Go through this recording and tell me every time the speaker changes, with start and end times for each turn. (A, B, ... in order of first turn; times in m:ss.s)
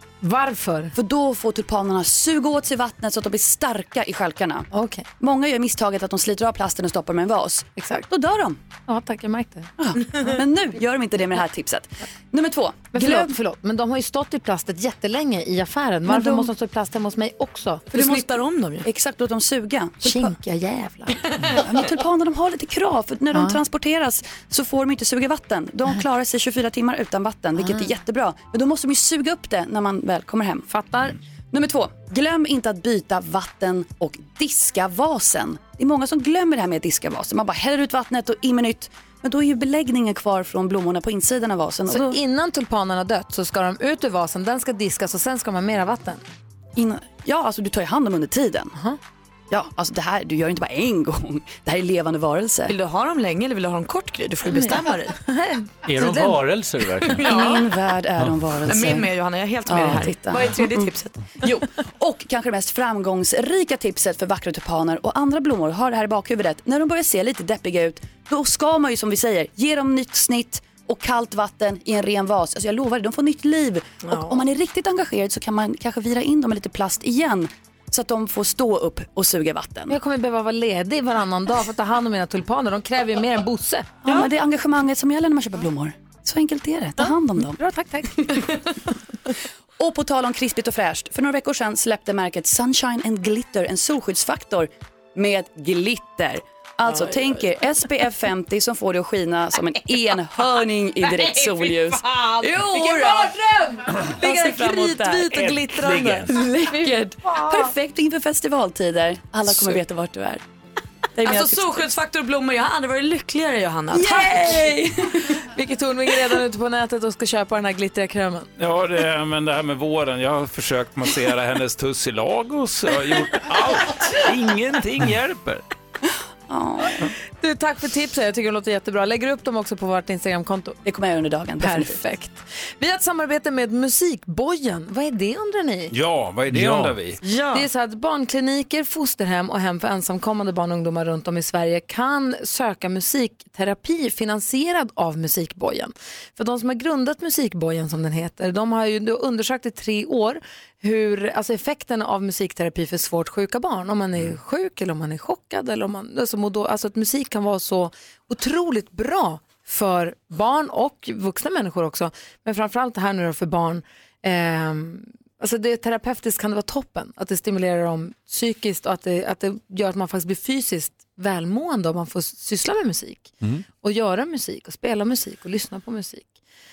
0:00.2-0:00.9 A
0:01.0-0:04.7 B
0:04.8-0:05.0 A
0:05.2-0:08.6 B
0:07.8-0:08.0 A
0:08.9-0:09.7 A
0:09.8-0:13.3 B
0:12.9-0:17.9 A
0:16.1-0:16.5 B
0:17.9-0:18.9 C
0:18.8-0:20.3 B
0:20.1-0:21.1 A
0:21.5-0:30.7 B
0:31.5-0:42.2 B
0:41.9-0:46.2 A
0:46.8-0:48.8 B
0:49.5-0:52.7 B
0:52.7-0:55.2 C
0:55.3-0:55.7 A
0:55.9-0:57.4 D
0:57.1-0:57.7 C
0:57.2-0:59.1 B
0:58.7-1:01.6 C
0:59.7-1:20.0 B
1:20.0-1:23.9 A
1:24.0-1:27.6 B
1:27.6-1:28.4 A
1:29.8-1:43.7 B
1:42.1-1:43.2 C
1:44.2-1:46.3 A
1:44.2-1:44.9 C
1:44.4-1:44.8 B
1:45.8-1:46.3 E
1:46.3-1:47.2 C
1:46.6-1:50.4 B
1:51.2-1:51.8 B
1:51.2-1:55.3 C
1:54.0-1:54.6 A
1:55.5-1:58.5 A
1:58.6-2:05.6 E
2:06.5-2:07.1 B
2:07.4-2:10.8 A
2:10.8-2:12.0 B
2:11.6-2:15.9 A
2:15.9-2:17.2 E
2:16.5-2:17.0 D
2:17.2-2:17.7 C
2:17.5-2:56.3 A